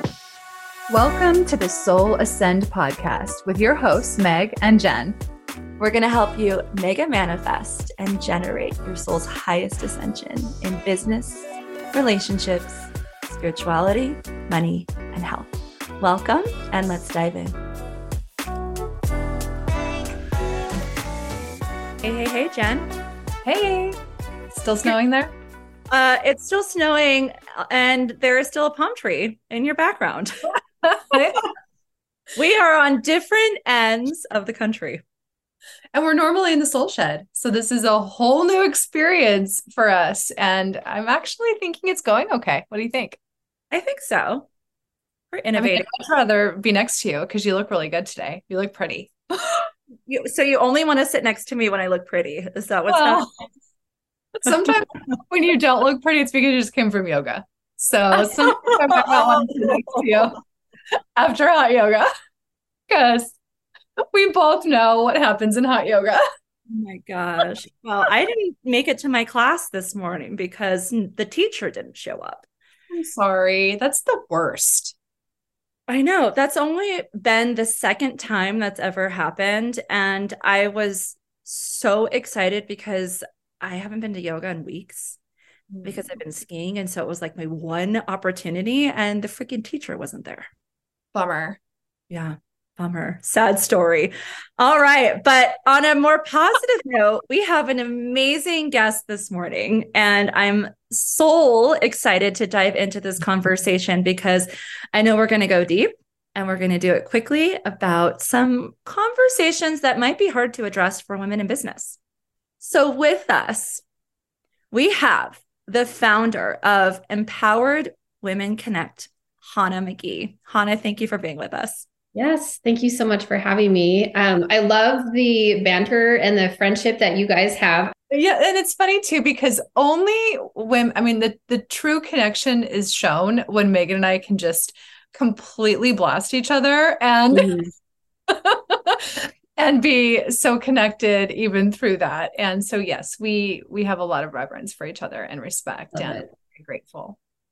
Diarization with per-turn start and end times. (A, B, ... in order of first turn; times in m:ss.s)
0:00.9-0:05.2 A
0:05.8-0:17.6 B
0:22.0-0:22.9 B
0:23.4-0:24.0 A
0:24.5-0:25.3 A
0:25.9-0:30.5 B
0:30.8-0:31.5 A
0:32.3-0:35.0 B
0:35.9-0:43.2 A
0:43.7-0:44.5 B
0:45.3-0:45.9 B
0:45.6-0:49.7 A
0:50.1-0:53.3 B
0:52.9-0:53.3 A
0:54.3-1:00.4 A
0:58.2-1:00.3 B
1:01.2-1:02.1 A
1:02.9-1:03.4 A
1:04.0-1:06.2 A
1:06.7-1:12.5 B
1:12.9-1:15.0 A
1:15.9-1:25.2 B
1:25.7-1:26.1 A
1:25.8-1:30.5 B
1:31.1-1:31.6 A
1:32.1-1:52.0 B
1:52.6-1:53.8 B
1:54.7-2:01.8 B
2:02.1-2:07.9 C
2:08.1-2:17.6 A
2:17.3-2:17.7 C
2:18.3-2:27.2 A
2:25.9-2:26.2 C